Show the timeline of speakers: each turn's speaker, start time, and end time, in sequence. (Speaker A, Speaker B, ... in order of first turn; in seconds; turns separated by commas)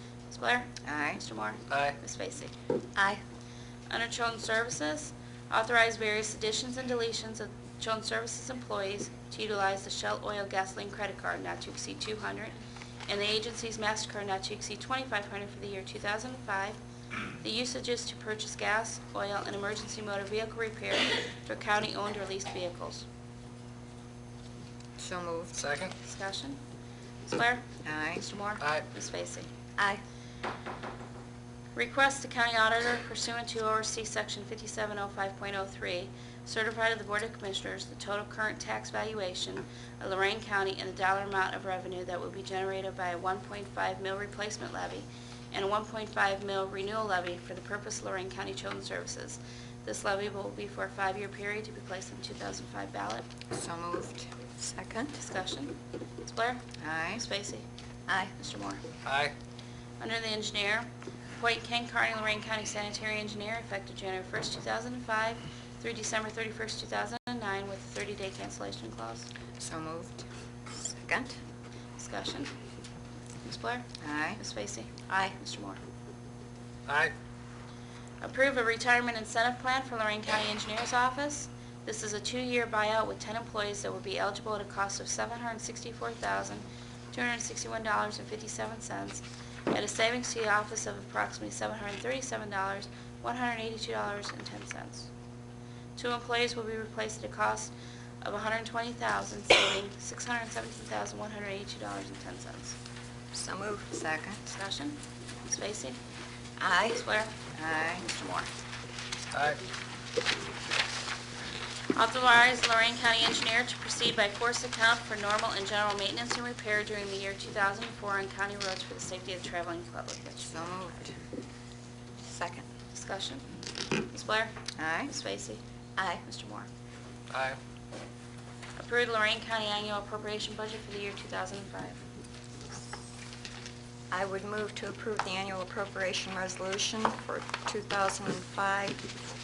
Speaker A: 0.3-2.5, Speaker B: 0.8-1.2, Speaker C: 1.7-2.0, Speaker B: 3.0-3.2, Speaker A: 3.9-16.8, Speaker A: 17.4-23.1, Speaker B: 25.0-25.6, Speaker C: 25.6-25.9, Speaker A: 26.0-26.6, Speaker A: 27.2-29.5, Speaker B: 27.9-28.2, Speaker C: 28.6-28.9, Speaker A: 31.8-53.3, Speaker B: 53.5-55.2, Speaker A: 55.2-57.7, Speaker B: 56.8-57.2, Speaker B: 58.1-58.3, Speaker A: 58.4-58.8, Speaker C: 59.0-59.3, Speaker A: 60.0-69.3, Speaker B: 69.6-71.4, Speaker A: 72.0-72.5, Speaker A: 73.4-75.8, Speaker B: 74.0-74.4, Speaker B: 75.1-75.4, Speaker C: 76.9-77.1, Speaker A: 78.2-95.1, Speaker A: 96.0-102.8, Speaker B: 103.3-104.4, Speaker A: 104.5-106.0, Speaker B: 106.6-108.0, Speaker A: 107.0-108.5, Speaker C: 109.3-109.6, Speaker A: 111.9-120.5, Speaker B: 120.4-121.2, Speaker B: 122.2-122.7, Speaker A: 122.9-123.5, Speaker A: 124.0-124.5, Speaker B: 124.8-125.1, Speaker A: 125.1-125.6, Speaker B: 126.0-126.2, Speaker A: 126.2-126.7, Speaker C: 127.3-127.6, Speaker A: 128.8-132.0, Speaker B: 134.1-139.1